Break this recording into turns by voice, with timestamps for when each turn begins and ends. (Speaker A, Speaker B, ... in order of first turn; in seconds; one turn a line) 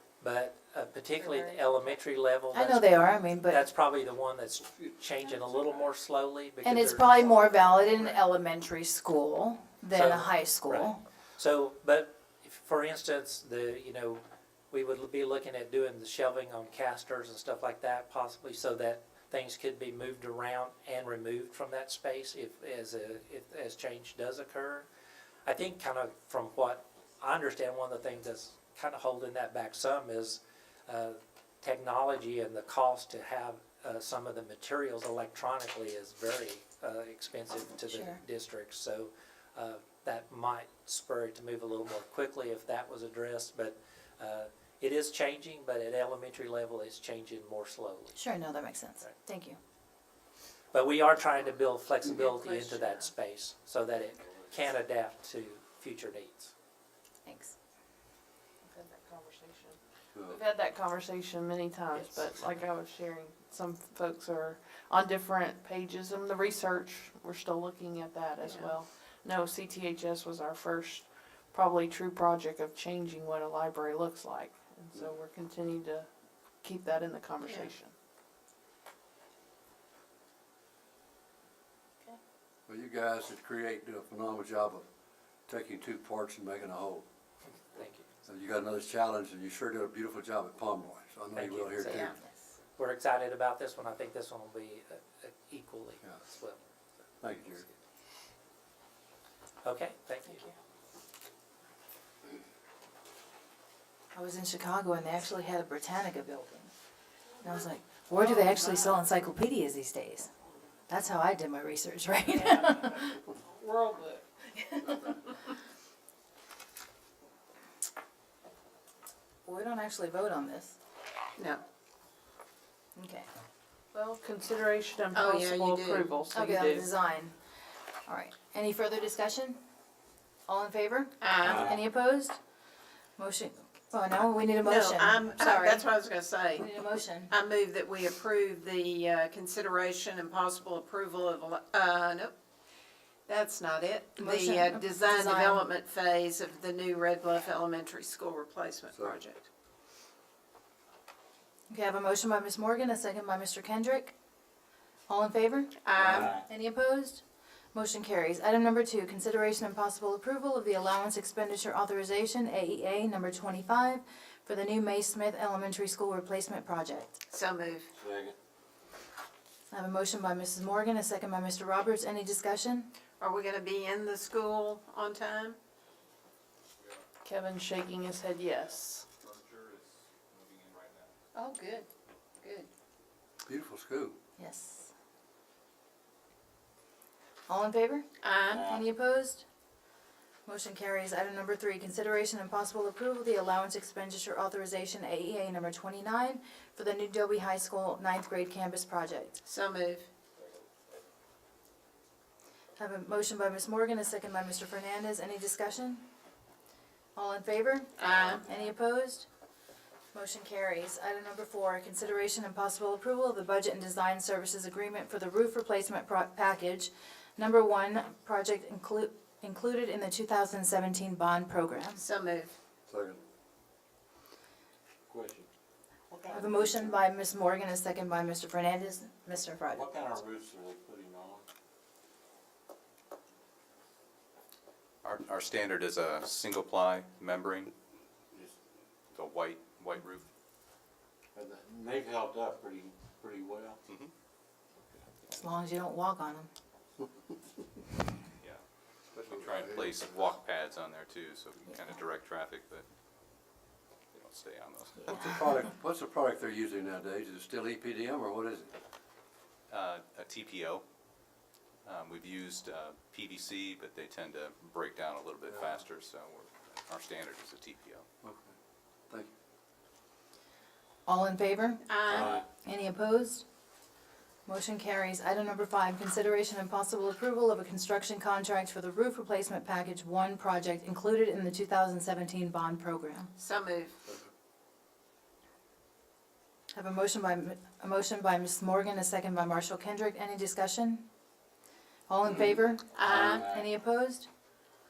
Speaker A: 0.2-7.3
Speaker B: 1.5-1.9
Speaker C: 2.5-3.6
Speaker C: 6.6-11.0
Speaker A: 9.9-24.9
Speaker A: 25.4-48.2
Speaker C: 37.8-38.2
Speaker C: 48.1-49.6
Speaker A: 50.7-56.5
Speaker D: 52.1-53.1
Speaker C: 57.2-57.5
Speaker B: 58.6-76.1
Speaker E: 60.1-60.4
Speaker A: 61.9-62.3
Speaker D: 68.4-68.7
Speaker B: 76.6-77.9
Speaker D: 77.4-77.7
Speaker E: 82.7-84.8
Speaker E: 85.5-87.0
Speaker A: 87.7-88.0
Speaker E: 88.2-92.1
Speaker A: 91.3-92.2
Speaker D: 91.8-92.2
Speaker A: 92.8-97.8
Speaker E: 97.2-97.6
Speaker A: 99.6-100.5
Speaker C: 104.1-106.7
Speaker C: 107.4-110.3
Speaker D: 108.2-108.8
Speaker C: 110.9-113.1
Speaker B: 112.4-114.2
Speaker C: 114.5-115.2
Speaker C: 119.5-120.8
Speaker D: 121.4-121.6
Speaker C: 123.0-123.2
Speaker B: 123.9-126.9
Speaker D: 125.1-126.1
Speaker C: 126.3-127.3
Speaker C: 128.1-129.6
Speaker C: 130.5-132.3
Speaker D: 131.2-131.7
Speaker F: 131.4-131.7
Speaker C: 133.2-135.9
Speaker D: 134.6-136.7
Speaker C: 136.5-137.3
Speaker D: 137.3-142.3
Speaker D: 143.3-149.4
Speaker C: 144.2-145.7
Speaker E: 148.9-149.2
Speaker C: 151.7-154.1
Speaker C: 155.1-157.2
Speaker D: 155.8-156.3
Speaker F: 156.0-156.5
Speaker C: 157.7-167.2
Speaker D: 167.3-167.9
Speaker E: 167.9-168.3
Speaker C: 169.7-172.9
Speaker D: 173.2-175.6
Speaker B: 177.2-179.1
Speaker G: 178.6-181.1
Speaker D: 181.3-181.9
Speaker D: 182.4-182.7
Speaker E: 183.4-184.2
Speaker C: 184.4-184.9
Speaker C: 187.5-188.1
Speaker D: 188.2-188.7
Speaker F: 188.5-188.9
Speaker C: 188.6-189.4
Speaker C: 190.4-199.4
Speaker D: 199.4-200.1
Speaker C: 202.8-206.0
Speaker C: 207.1-209.2
Speaker D: 208.0-208.4
Speaker C: 210.1-222.0
Speaker D: 221.9-222.5
Speaker E: 222.9-223.2
Speaker F: 225.1-225.5
Speaker F: 226.1-227.0
Speaker C: 226.3-229.9
Speaker F: 229.7-231.4
Speaker G: 235.0-237.7
Speaker G: 239.1-240.2
Speaker F: 241.3-243.8
Speaker G: 243.8-244.1
Speaker C: 245.3-246.5
Speaker E: 249.1-250.1
Speaker G: 249.2-252.8
Speaker G: 254.1-255.4
Speaker C: 255.0-255.6
Speaker E: 255.1-258.7
Speaker G: 259.7-260.8
Speaker G: 261.8-268.0
Speaker E: 268.2-268.5
Speaker C: 271.1-271.8
Speaker D: 271.9-272.4
Speaker E: 272.1-272.4
Speaker F: 272.1-272.4
Speaker C: 272.6-273.4
Speaker C: 274.4-283.3
Speaker D: 283.4-283.9
Speaker C: 286.7-291.0
Speaker C: 292.1-294.3
Speaker D: 292.9-293.4
Speaker F: 293.0-293.7